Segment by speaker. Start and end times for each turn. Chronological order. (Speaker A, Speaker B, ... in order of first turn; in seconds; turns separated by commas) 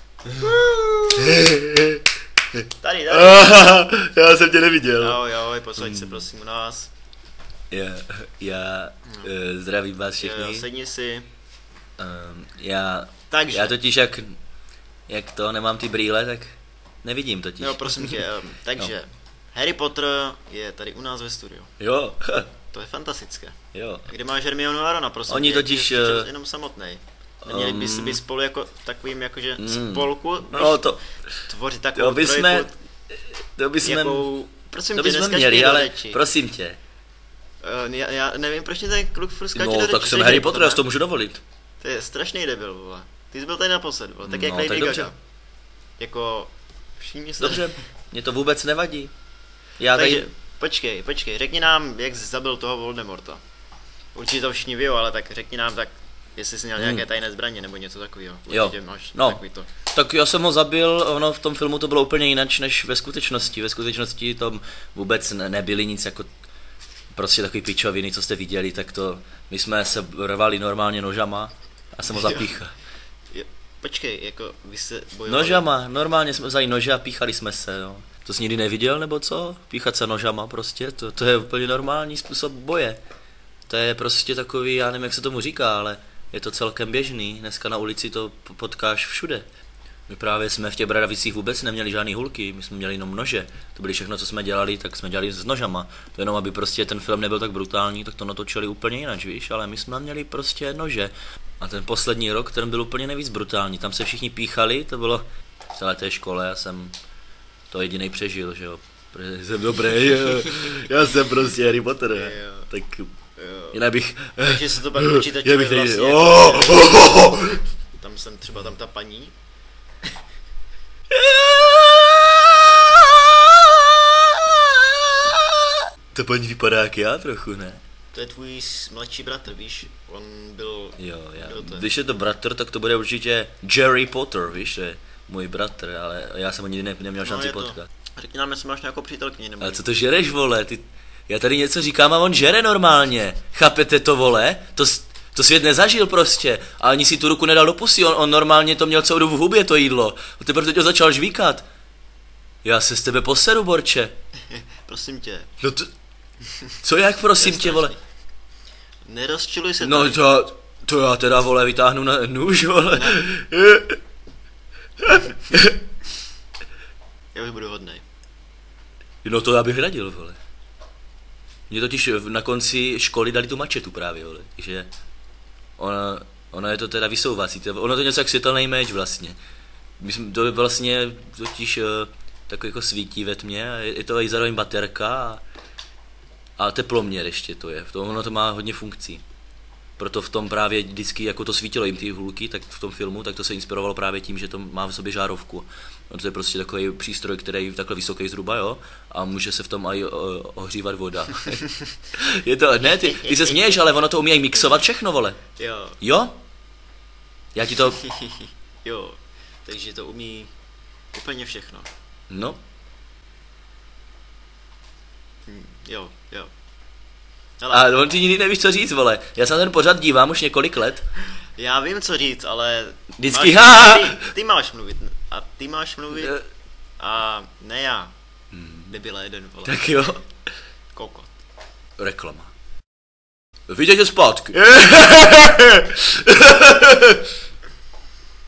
Speaker A: 0.4-1.4, Speaker B: 1.2-2.0, Speaker A: 2.8-3.5, Speaker B: 3.1-5.2, Speaker A: 5.0-6.9, Speaker B: 5.8-6.2, Speaker B: 7.7-10.7, Speaker A: 10.2-11.3, Speaker B: 12.0-14.4, Speaker A: 13.3-13.8, Speaker B: 15.1-18.2, Speaker A: 17.6-21.7, Speaker B: 21.8-22.5, Speaker A: 22.7-30.9, Speaker B: 23.7-24.1, Speaker B: 25.3-26.3, Speaker B: 27.4-28.2, Speaker B: 29.6-31.3, Speaker A: 31.4-32.8, Speaker B: 32.0-34.3, Speaker A: 33.8-36.2, Speaker B: 34.9-36.8, Speaker A: 37.6-40.8, Speaker B: 39.5-41.4, Speaker A: 41.8-45.2, Speaker B: 44.2-45.1, Speaker A: 46.0-47.8, Speaker B: 47.4-49.1, Speaker B: 49.8-50.3, Speaker A: 49.9-53.4, Speaker A: 54.1-59.7, Speaker B: 56.8-57.0, Speaker B: 58.5-66.3, Speaker B: 67.1-72.7, Speaker A: 72.1-72.5, Speaker A: 73.3-75.7, Speaker B: 75.3-83.0, Speaker B: 83.7-89.5, Speaker B: 90.1-106.9, Speaker B: 107.7-113.1, Speaker A: 112.1-112.7, Speaker A: 113.3-113.8, Speaker B: 113.7-117.6, Speaker A: 114.4-117.1, Speaker A: 118.0-119.3, Speaker B: 121.1-127.8, Speaker A: 128.1-131.9, Speaker B: 131.0-137.9, Speaker A: 137.2-139.8, Speaker B: 139.6-151.7, Speaker B: 152.6-154.1, Speaker A: 154.5-155.5, Speaker B: 155.6-155.9, Speaker B: 156.8-157.9, Speaker A: 157.4-158.0, Speaker A: 159.1-160.2, Speaker B: 159.8-164.0, Speaker A: 162.9-163.2, Speaker B: 165.0-165.8, Speaker A: 167.3-168.0, Speaker B: 169.2-170.4, Speaker B: 171.7-174.9, Speaker B: 175.8-179.4, Speaker B: 180.0-185.4, Speaker B: 186.6-189.2, Speaker B: 190.0-205.5, Speaker A: 201.5-201.9, Speaker A: 202.8-203.6, Speaker A: 205.6-206.0, Speaker B: 206.0-206.4, Speaker B: 207.5-208.0, Speaker A: 208.0-210.5, Speaker A: 211.1-211.9, Speaker B: 212.3-212.6, Speaker A: 215.5-216.5, Speaker A: 217.6-217.9, Speaker B: 217.7-221.1, Speaker A: 221.6-226.4, Speaker B: 223.2-224.2, Speaker B: 226.2-226.4, Speaker A: 227.0-228.1, Speaker B: 228.5-228.9, Speaker A: 228.9-230.1, Speaker B: 229.7-230.2, Speaker A: 230.9-231.3, Speaker B: 232.0-232.5, Speaker B: 233.7-237.2